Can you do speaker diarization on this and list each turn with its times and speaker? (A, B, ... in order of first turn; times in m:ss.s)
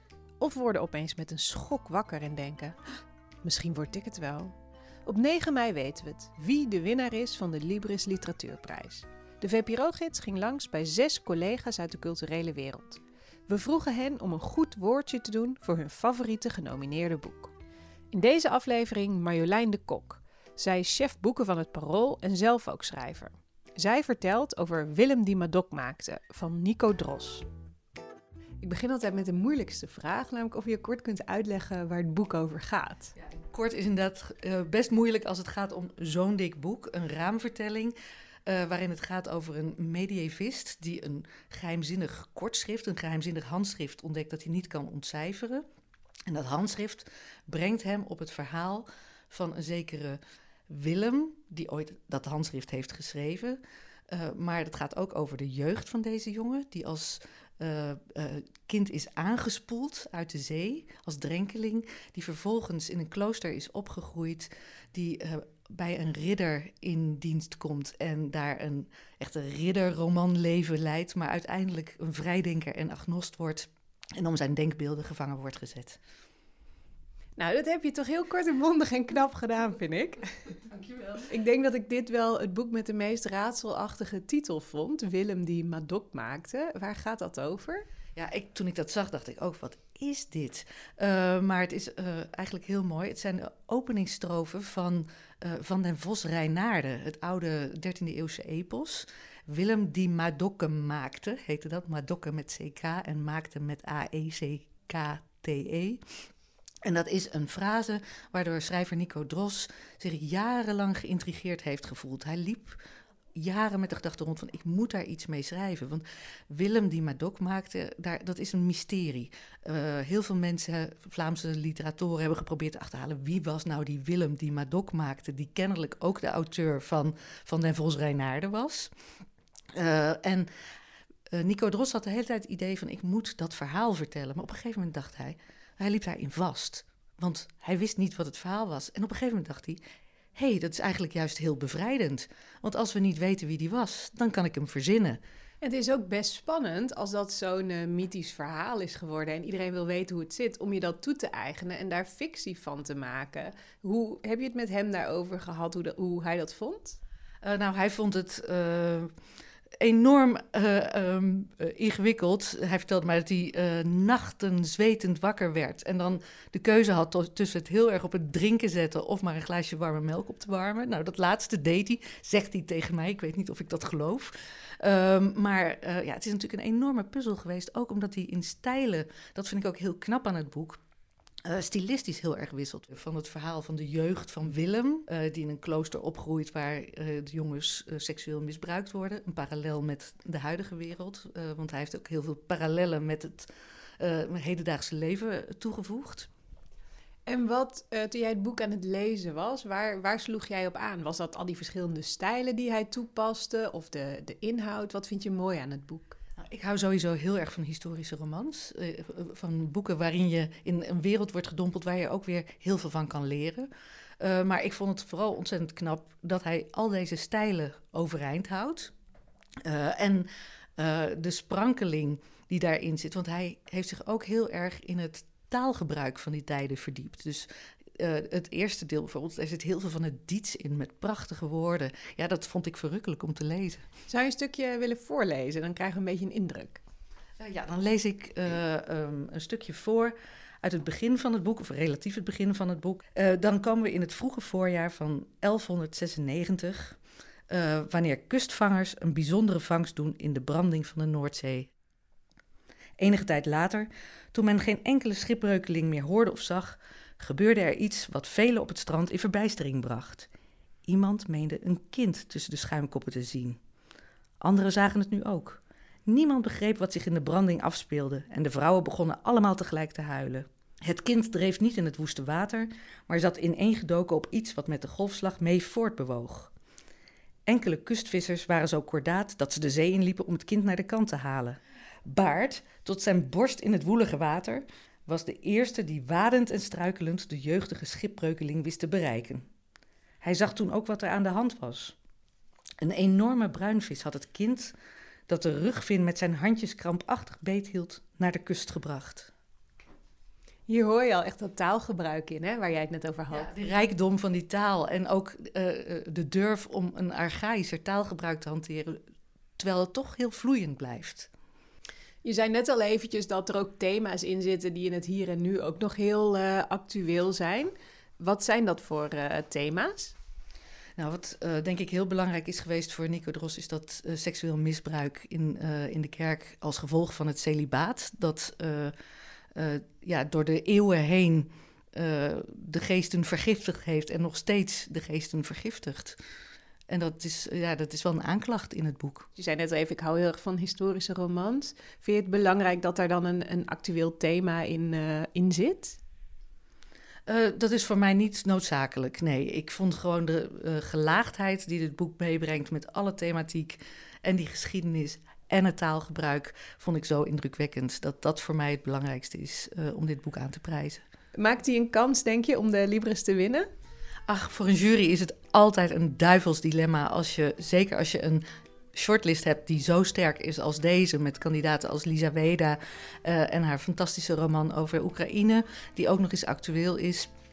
0:00.4-0:02.8 A
0:03.4-0:04.6 A
0:05.1-0:17.5 A
0:18.1-0:27.5 A
0:28.6-0:33.1 A
0:33.2-0:38.0 B
0:38.5-0:45.6 B
0:46.3-1:16.0 B
1:17.4-1:27.8 A
1:28.2-1:46.0 B
1:46.8-1:52.8 B
1:53.4-2:08.9 B
2:09.7-2:10.5 B
2:11.3-2:19.8 B
2:20.4-2:25.2 B
2:25.6-2:37.0 A
2:37.4-2:39.1 B
2:39.8-3:00.8 B
3:01.4-3:16.3 B
3:17.3-3:26.2 A
3:26.4-3:33.7 B
3:34.2-3:38.9 B
3:39.6-3:53.8 B
3:54.1-3:56.8 A
3:57.4-4:07.0 B
4:07.5-4:11.7 B
4:13.0-4:20.3 B
4:20.9-4:23.6 B
4:24.4-4:36.5 B
4:37.5-4:49.5 B
4:50.2-4:52.0 B
4:52.8-4:54.7 B
4:55.3-4:59.3 B
5:00.7-5:03.5 A
5:03.3-5:09.0 B
5:09.6-5:11.3 B
5:12.2-5:20.2 A
5:21.0-5:28.9 B
5:29.6-5:36.2 B
5:36.9-5:39.3 B
5:39.4-5:46.0 A
5:47.3-6:01.0 B
6:01.4-6:03.7 A
6:04.3-6:17.3 B